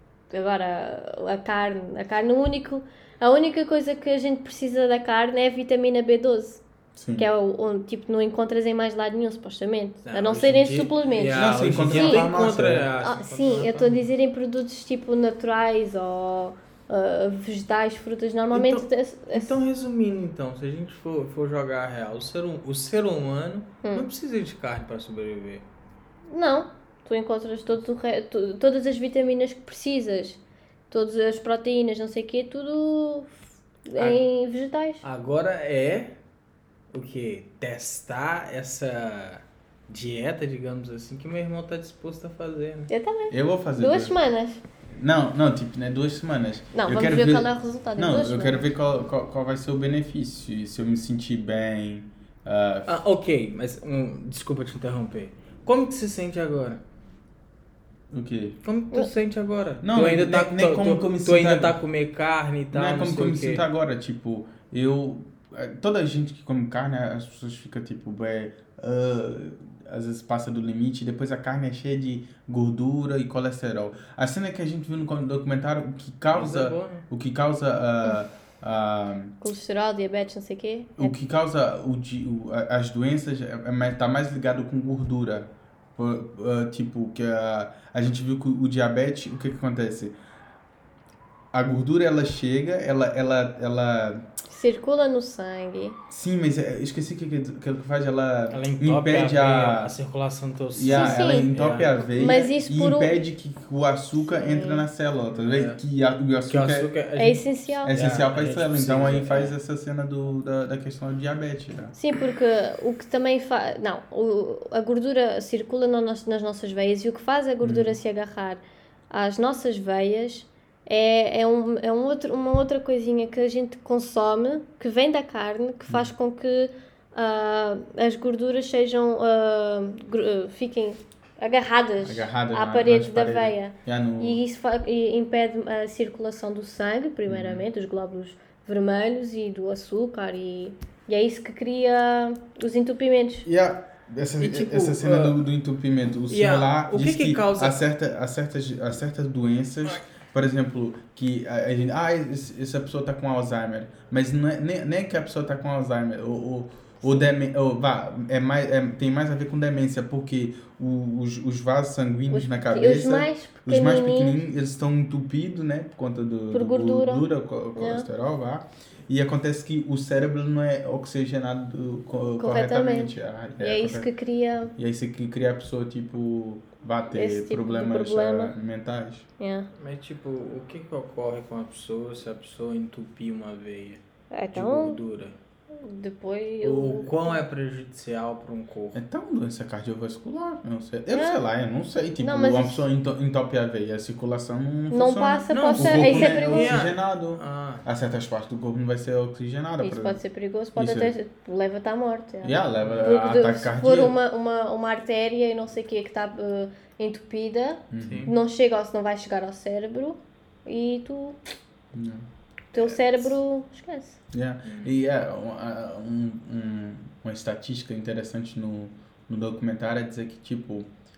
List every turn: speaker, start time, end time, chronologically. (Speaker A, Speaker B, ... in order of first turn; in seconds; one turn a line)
Speaker A: 0.3-6.6
Speaker B: 7.0-7.3
Speaker A: 7.2-12.3
Speaker C: 10.0-14.1
Speaker B: 11.3-12.9
Speaker A: 13.0-19.5
Speaker C: 18.5-25.6
Speaker A: 26.3-30.4
Speaker A: 30.9-33.3
Speaker A: 33.9-35.0
Speaker C: 34.0-34.2
Speaker C: 35.0-36.1
Speaker C: 36.9-42.9
Speaker A: 42.9-44.6
Speaker B: 43.3-44.1
Speaker B: 45.0-53.0
Speaker A: 46.7-48.7
Speaker C: 52.9-56.8
Speaker B: 58.1-58.6
Speaker C: 58.6-63.6
Speaker B: 59.8-61.8
Speaker B: 62.7-79.3
Speaker C: 76.3-77.0
Speaker A: 79.4-81.1
Speaker B: 81.0-90.1
Speaker B: 91.5-94.3
Speaker A: 94.5-96.0
Speaker B: 96.1-99.9
Speaker C: 98.5-102.1
Speaker B: 100.7-106.9
Speaker A: 100.9-101.5
Speaker A: 102.2-103.2
Speaker A: 104.2-104.8
Speaker C: 105.4-105.8
Speaker C: 106.5-109.5
Speaker A: 107.2-107.9
Speaker B: 107.8-111.9
Speaker A: 112.0-143.5
Speaker B: 117.6-117.9
Speaker B: 132.0-134.4
Speaker B: 137.3-137.6
Speaker B: 143.4-174.1
Speaker C: 144.4-145.4
Speaker C: 146.3-147.8
Speaker A: 162.3-164.4
Speaker A: 166.5-168.1
Speaker A: 172.4-174.7
Speaker B: 174.8-179.3
Speaker A: 177.1-178.5
Speaker A: 179.4-179.7
Speaker C: 179.8-184.0
Speaker A: 184.3-185.0
Speaker C: 184.5-185.3
Speaker A: 185.8-187.4
Speaker C: 186.6-189.0
Speaker B: 188.9-200.2
Speaker A: 191.1-191.4
Speaker A: 192.2-192.8
Speaker A: 194.9-196.8
Speaker C: 195.5-197.8
Speaker A: 199.8-211.4
Speaker B: 200.8-201.1
Speaker B: 202.4-204.2
Speaker B: 207.9-208.3
Speaker C: 208.0-208.3
Speaker B: 211.9-212.2
Speaker A: 212.7-214.2
Speaker B: 214.3-220.9
Speaker C: 214.6-214.9